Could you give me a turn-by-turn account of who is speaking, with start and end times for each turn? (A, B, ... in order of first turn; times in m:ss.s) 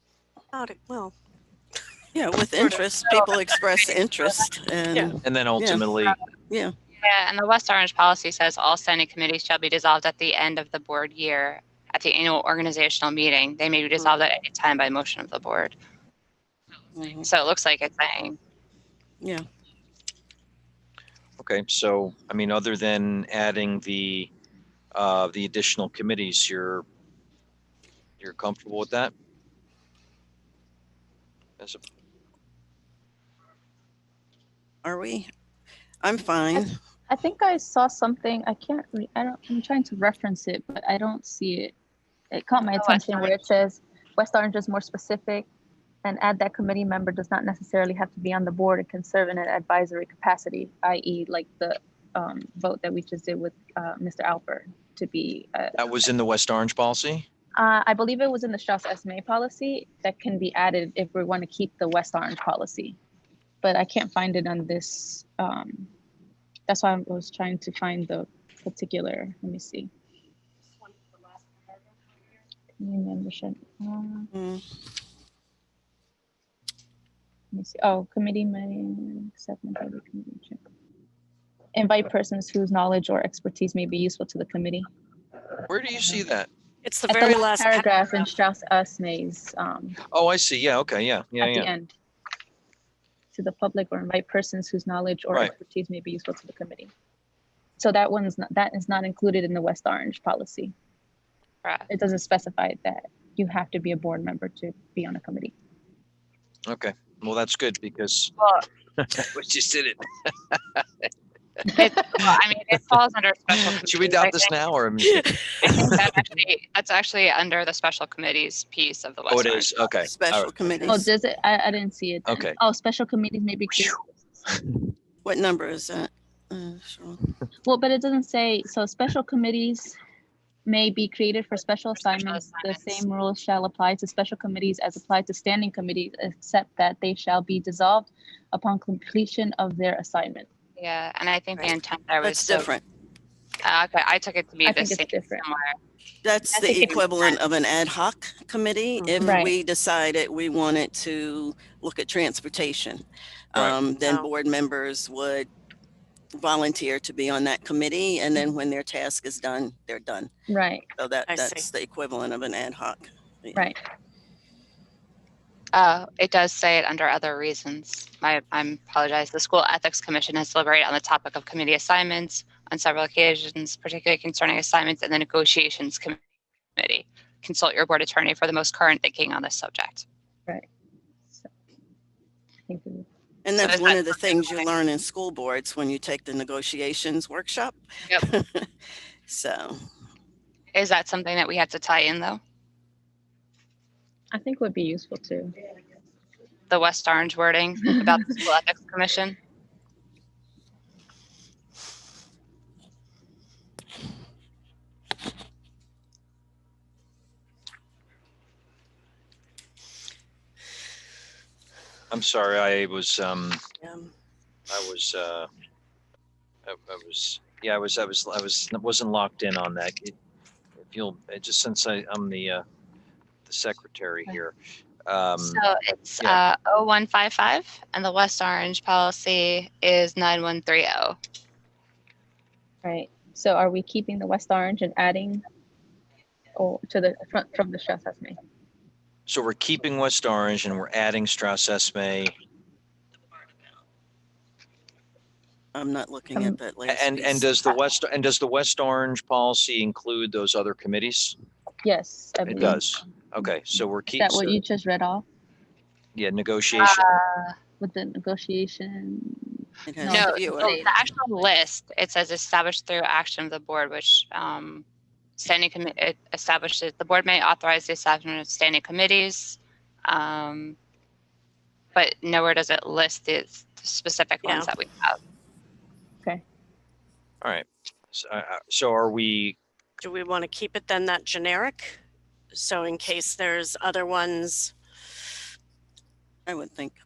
0:00.5-0:01.1 A
0:02.1-0:05.8 B
0:05.2-0:06.2 C
0:06.5-0:06.8 B
0:07.0-0:15.8 D
0:17.0-0:17.3 B
0:17.2-0:18.4 D
0:21.4-0:24.3 C
0:24.9-0:26.8 C
0:28.2-0:29.1 C
0:34.8-0:35.3 B
0:36.0-0:36.8 B
0:37.1-0:41.7 E
0:42.3-0:45.5 E
0:42.8-0:43.4 D
0:46.0-0:55.8 E
0:55.8-0:57.2 C
0:57.6-1:03.0 E
1:03.6-1:05.9 E
1:06.7-1:09.9 E
1:12.8-1:14.3 E
1:14.3-1:14.6 B
1:17.5-1:20.6 E
1:21.8-1:24.9 E
1:25.7-1:26.5 C
1:26.8-1:28.3 A
1:27.1-1:30.0 E
1:30.1-1:31.7 C
1:31.4-1:31.9 E
1:33.3-1:36.9 E
1:37.8-1:40.7 E
1:41.6-1:41.9 D
1:41.9-1:45.5 E
1:46.7-1:48.3 C
1:48.4-1:48.6 D
1:49.0-1:51.1 C
1:51.7-1:54.6 D
1:53.8-1:56.0 C
1:55.6-1:59.7 D
1:59.3-2:01.0 C
2:00.0-2:01.1 B
2:00.9-2:04.1 E
2:02.2-2:02.6 C
2:04.5-2:04.8 C
2:05.2-2:07.3 B
2:07.6-2:10.0 E
2:10.7-2:20.5 E
2:12.0-2:13.0 D
2:20.8-2:22.7 D
2:22.2-2:22.8 B
2:23.6-2:25.8 D
2:24.6-2:25.4 E
2:26.2-2:35.5 B
2:26.6-2:27.4 D
2:29.2-2:29.5 E
2:36.4-2:40.3 B
2:40.5-2:40.9 E
2:41.0-2:43.7 B
2:41.3-2:41.7 A
2:45.7-2:56.2 D
2:56.8-3:00.0 D
3:02.7-3:03.1 E
3:03.4-3:08.7 B
3:03.6-3:04.6 D
3:09.3-3:09.8 B
3:10.7-3:12.4 D
3:14.3-3:15.6 E
3:16.7-3:19.4 D
3:32.1-3:33.6 C
3:34.7-3:35.5 C
3:36.7-3:40.2 C
3:40.8-3:42.6 C
3:43.5-3:44.5 C
3:45.1-3:45.6 C
3:45.4-3:51.2 D
3:52.8-3:55.4 E
3:56.6-3:58.4 E
3:59.3-4:02.3 C
4:05.7-4:07.5 B
4:06.9-4:11.4 C
4:11.8-4:12.8 E
4:12.5-4:14.6 C
4:14.1-4:15.2 E
4:16.2-4:17.1 C
4:16.8-4:17.6 D
4:17.8-4:20.9 E
4:19.9-4:20.8 B
4:20.1-4:24.8 D
4:25.4-4:30.8 D
4:32.0-4:35.2 D
4:37.4-4:39.6 C
4:40.0-4:42.0 A
4:42.5-4:44.7 A
4:46.5-4:47.0 B